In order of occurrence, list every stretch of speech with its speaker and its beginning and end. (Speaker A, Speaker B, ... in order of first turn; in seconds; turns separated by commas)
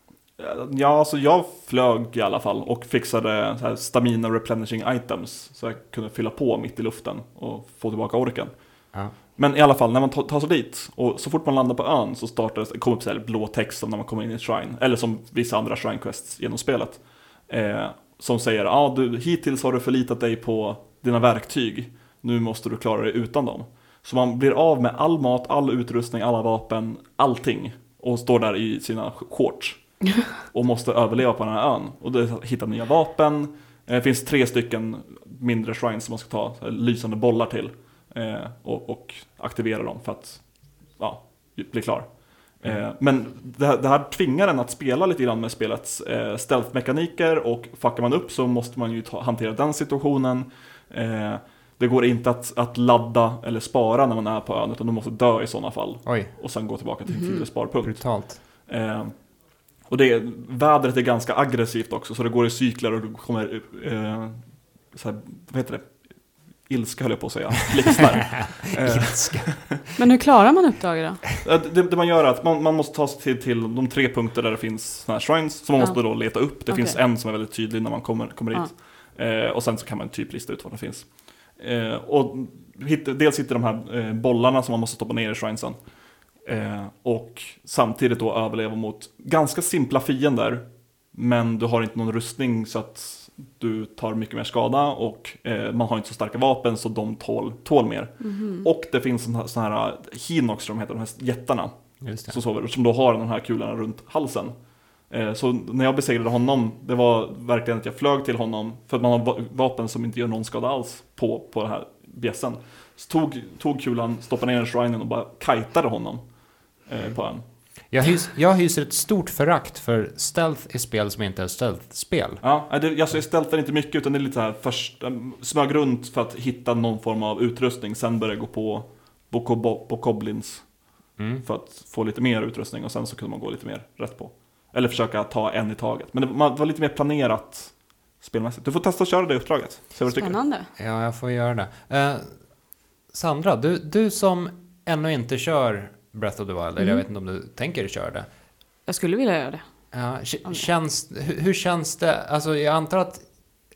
Speaker A: 0.4-69.7, Speaker B: 56.0-56.3, Speaker C: 57.1-57.5, Speaker B: 57.8-58.4, Speaker B: 68.4-69.8, Speaker C: 70.0-71.2, Speaker A: 71.4-117.4, Speaker C: 75.8-77.0, Speaker C: 98.2-98.7, Speaker B: 102.0-102.4, Speaker B: 117.9-122.4, Speaker A: 122.4-140.4, Speaker B: 131.2-131.5, Speaker C: 140.1-140.7, Speaker B: 140.8-148.3, Speaker C: 146.8-147.0, Speaker C: 148.9-150.7, Speaker B: 149.9-153.4